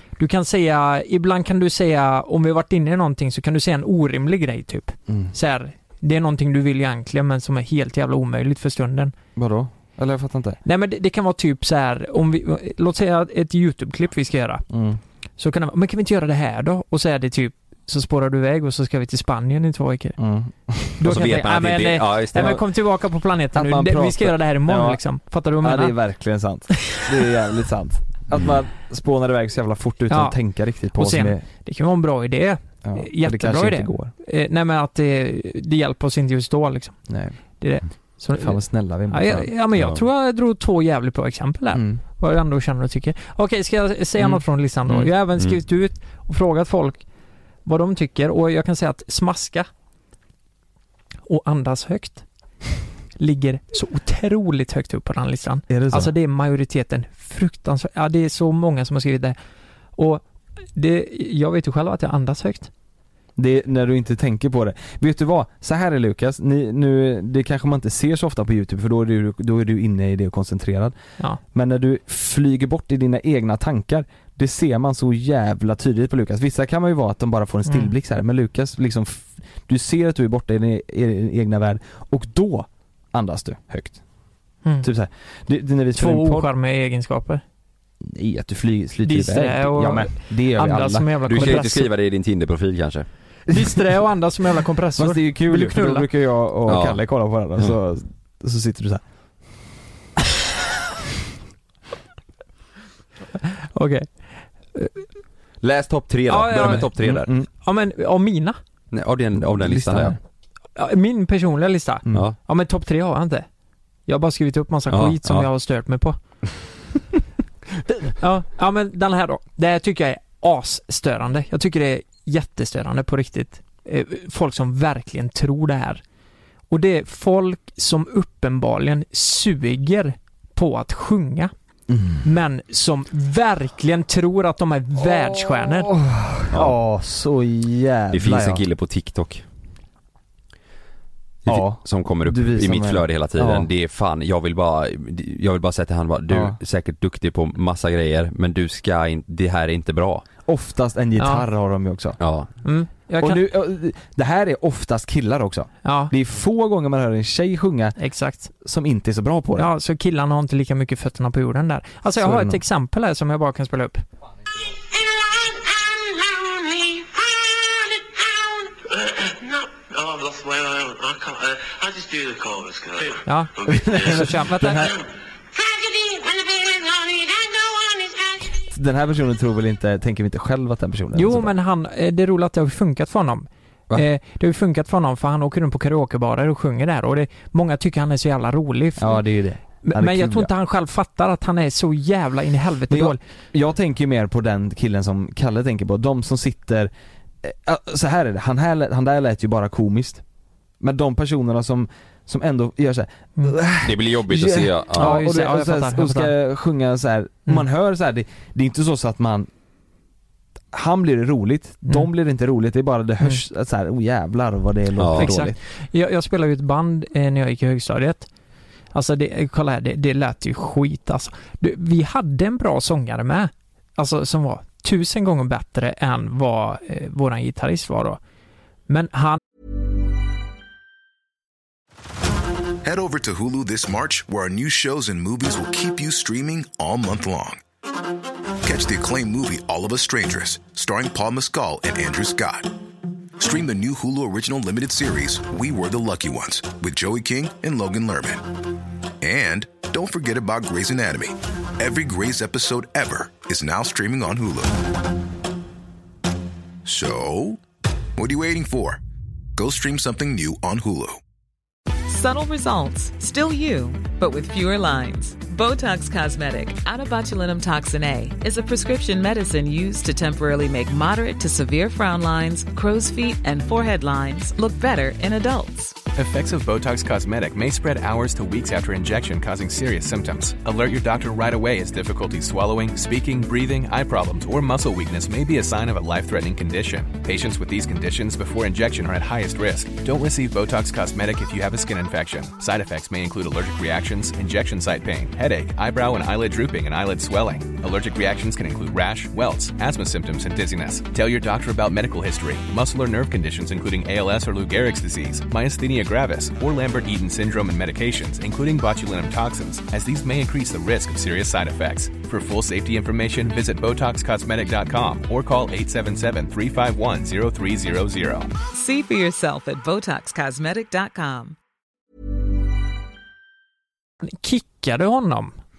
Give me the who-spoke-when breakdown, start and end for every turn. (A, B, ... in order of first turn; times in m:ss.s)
0:00.2-0:09.1 A
0:05.1-0:05.3 B
0:09.4-0:10.6 B
0:10.6-0:14.6 A
0:14.7-0:15.0 B
0:15.4-0:20.2 A
0:20.2-0:21.0 B
0:21.0-0:25.9 A
0:21.0-0:22.6 C
0:22.4-0:22.6 B
0:23.5-0:25.0 B
0:25.6-0:31.4 B
0:30.1-0:30.4 A
0:30.9-0:37.0 A
0:32.8-0:34.1 B
0:37.1-0:37.4 B
0:37.6-0:47.0 A
0:38.4-0:39.5 B
0:41.7-0:42.0 B
0:44.2-0:45.0 B
0:47.6-0:49.7 A
0:51.3-0:52.2 A
0:53.2-0:59.4 A
0:55.7-0:56.1 B
1:00.0-1:02.7 A
1:03.4-1:11.0 B
1:11.5-1:24.0 B
1:17.6-1:17.9 A
1:24.8-1:26.5 B
1:26.0-1:27.4 A
1:28.0-1:31.6 B
1:29.0-1:31.9 A
1:31.3-1:33.0 C
1:33.5-1:36.1 A
1:35.0-1:39.0 B
1:36.7-1:37.0 C
1:43.6-1:44.2 A
1:44.7-1:45.0 A
1:45.6-1:47.3 C
1:46.3-1:46.9 A
1:46.6-1:47.5 B
1:47.5-1:48.6 A
1:48.9-1:50.1 C
1:49.4-1:50.2 B
1:50.8-1:53.5 A
1:54.1-1:56.2 A
1:54.9-1:55.4 C
1:58.2-2:06.0 A
2:06.7-2:11.5 A
2:11.9-2:12.2 B
2:12.2-2:15.9 A
2:15.0-2:18.6 B
2:16.5-2:16.7 C
2:18.1-2:19.4 C
2:21.4-2:30.2 C
2:21.5-2:23.7 B
2:26.3-2:26.6 B
2:30.4-2:32.2 B
2:31.2-2:31.4 A
2:32.2-2:32.5 C
2:32.6-2:33.4 A
2:33.2-2:38.0 B
2:35.8-2:36.1 A
2:38.0-2:38.5 A
2:38.6-2:39.7 B
2:39.6-2:44.0 A
2:42.2-2:42.6 B
2:44.9-2:58.5 D
2:53.2-2:54.9 A
2:53.7-2:55.0 B
2:58.7-3:01.5 B
3:01.1-3:09.2 A
3:09.0-3:10.5 B
3:09.8-3:13.2 A
3:12.9-3:16.9 B
3:17.4-3:20.2 B
3:20.8-3:29.5 B
3:23.8-3:25.2 C
3:25.0-3:26.3 A
3:30.7-3:35.6 B
3:35.0-3:35.3 C
3:35.2-3:38.3 A
3:38.9-3:48.2 A
3:48.9-3:49.4 A
3:52.8-3:57.6 E
3:58.6-4:02.7 E
4:03.4-4:08.5 E
4:09.2-4:14.9 E
4:16.8-4:17.6 E
4:18.2-4:19.0 E
4:19.6-4:21.2 E
4:22.1-4:36.0 F
4:36.2-5:18.5 G
5:18.7-5:21.6 F
5:24.2-5:25.6 A